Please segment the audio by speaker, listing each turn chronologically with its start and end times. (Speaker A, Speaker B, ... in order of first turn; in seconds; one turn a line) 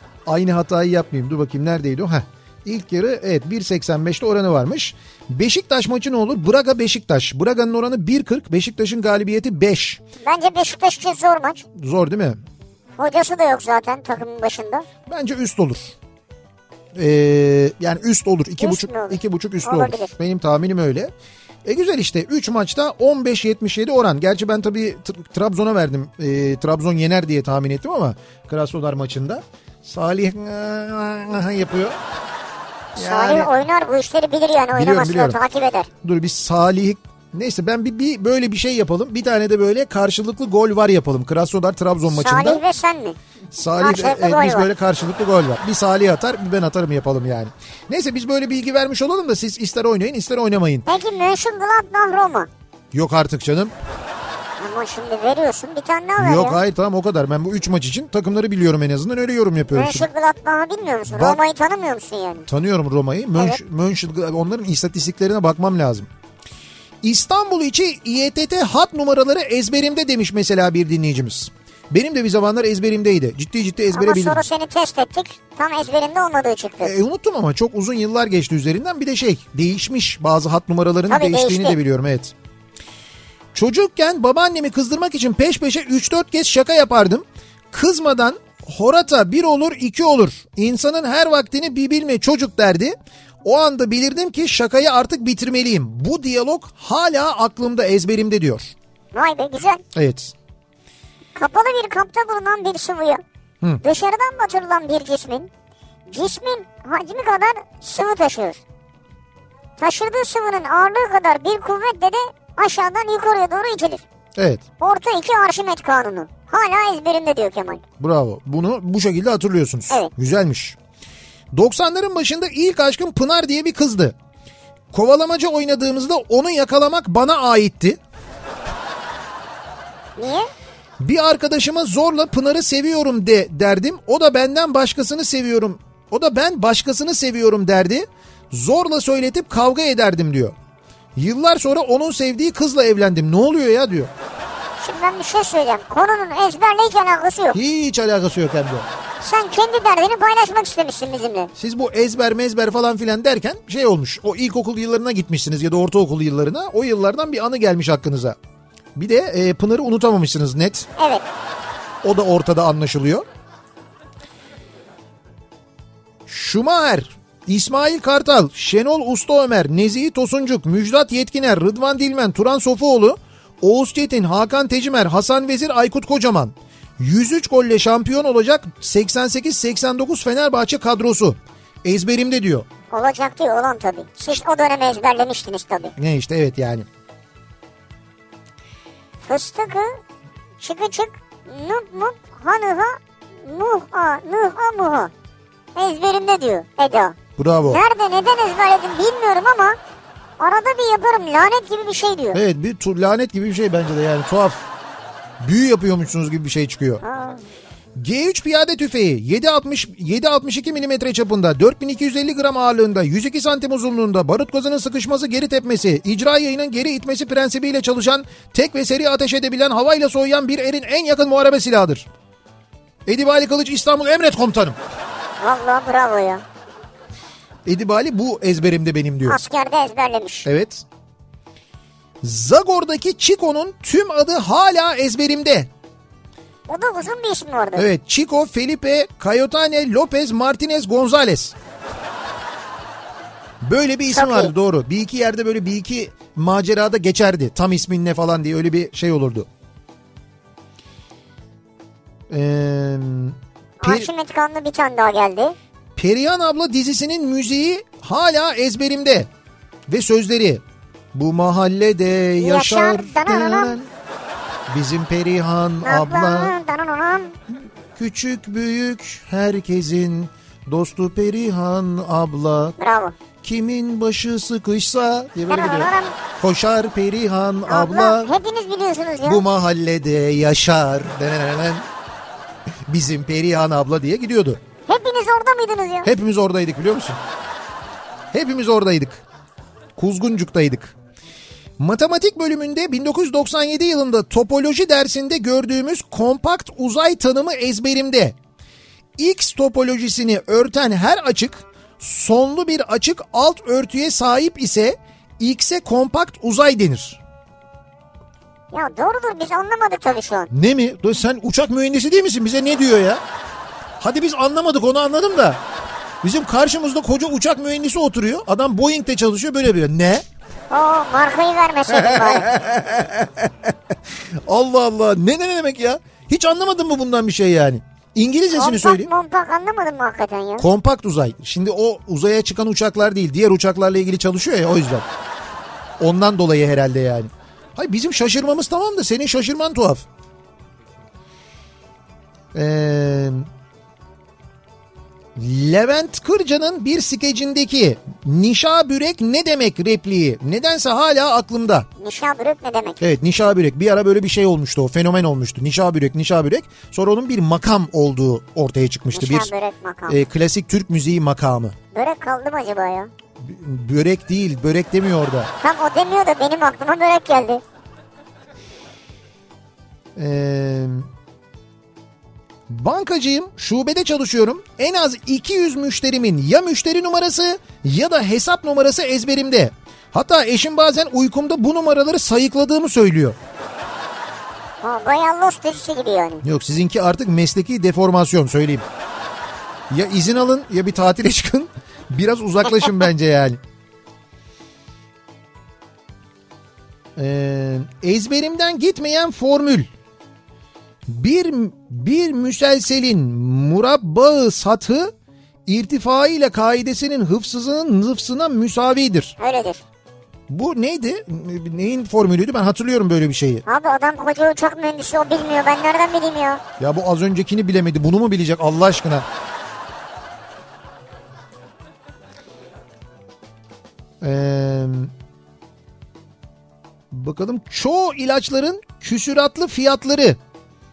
Speaker A: 0.3-10.0
Speaker B: 10.2-11.7
Speaker A: 11.8-12.4
Speaker B: 13.0-14.9
Speaker A: 15.1-15.9
Speaker A: 16.9-21.1
Speaker B: 18.6-20.1
Speaker A: 21.6-32.0
Speaker A: 33.0-33.5
Speaker B: 33.0-35.9
Speaker A: 34.7-35.4
Speaker A: 36.0-42.6
Speaker B: 42.1-43.2
Speaker A: 43.5-50.9
Speaker B: 43.8-44.7
Speaker B: 50.9-52.5
Speaker A: 52.9-53.8
Speaker B: 54.6-56.6
Speaker A: 56.2-60.1
Speaker B: 59.7-62.5
Speaker A: 61.1-61.4
Speaker A: 62.5-66.1
Speaker A: 67.0-74.4
Speaker B: 73.9-76.9
Speaker A: 76.8-82.3
Speaker B: 81.1-81.8
Speaker A: 83.5-98.7
Speaker B: 99.1-99.8
Speaker A: 100.0-100.3
Speaker B: 101.3-103.2
Speaker B: 103.8-105.5
Speaker B: 106.1-108.6
Speaker B: 109.8-114.0
Speaker A: 114.4-114.6
Speaker B: 114.8-117.8
Speaker A: 118.0-120.8
Speaker A: 121.5-124.2
Speaker A: 124.9-128.0
Speaker B: 130.2-130.5
Speaker A: 131.0-140.6
Speaker A: 141.2-144.1
Speaker B: 144.8-147.6
Speaker A: 147.5-148.9
Speaker B: 149.2-151.5
Speaker A: 151.6-158.4
Speaker A: 158.9-160.9
Speaker B: 161.0-161.2
Speaker A: 162.0-163.2
Speaker A: 166.3-182.7
Speaker B: 182.9-185.9
Speaker A: 186.0-186.9
Speaker B: 189.3-190.0
Speaker B: 190.6-195.1
Speaker B: 195.8-199.8
Speaker A: 197.4-197.8
Speaker B: 200.4-202.4
Speaker A: 202.3-204.6
Speaker A: 205.4-207.0
Speaker B: 207.0-207.4
Speaker A: 208.0-222.1
Speaker A: 223.1-224.8
Speaker B: 225.4-226.4
Speaker A: 227.7-229.4
Speaker B: 229.3-230.5
Speaker A: 230.4-230.8
Speaker A: 232.2-235.7
Speaker B: 236.7-237.9
Speaker A: 237.8-241.6
Speaker A: 243.6-249.5
Speaker B: 244.1-244.5
Speaker A: 252.3-254.1
Speaker B: 253.8-255.6
Speaker A: 256.0-259.3
Speaker A: 259.9-260.6
Speaker A: 261.1-263.9
Speaker B: 262.4-263.8
Speaker A: 264.7-266.6
Speaker B: 265.8-267.4
Speaker A: 268.0-272.8
Speaker B: 272.8-273.2
Speaker A: 273.4-278.3
Speaker B: 275.5-276.1
Speaker B: 277.7-279.4
Speaker A: 279.2-281.9
Speaker A: 282.9-284.6
Speaker B: 284.9-286.1
Speaker A: 286.1-287.2
Speaker A: 288.3-289.2
Speaker A: 290.0-290.9
Speaker A: 291.8-298.4
Speaker A: 299.2-307.2
Speaker B: 308.7-310.5
Speaker A: 310.5-313.2
Speaker A: 314.0-315.6
Speaker A: 316.2-320.2
Speaker B: 320.7-322.5
Speaker A: 321.9-329.1
Speaker B: 328.5-330.7
Speaker A: 330.6-335.1
Speaker A: 336.0-340.1
Speaker A: 342.5-343.5
Speaker A: 345.4-351.9
Speaker B: 352.0-353.0
Speaker A: 353.0-359.5
Speaker B: 359.1-360.2
Speaker A: 360.1-361.8
Speaker B: 361.9-363.1
Speaker A: 363.4-365.5
Speaker B: 365.6-367.6
Speaker A: 370.2-371.1
Speaker A: 372.7-383.4
Speaker B: 384.8-386.4
Speaker A: 386.4-388.9
Speaker A: 389.9-393.6
Speaker A: 397.2-399.9
Speaker A: 401.1-405.1
Speaker A: 405.7-409.4
Speaker B: 409.4-409.8
Speaker A: 410.5-413.6
Speaker B: 413.7-416.6
Speaker A: 416.8-419.3
Speaker A: 424.2-425.1
Speaker A: 427.1-430.4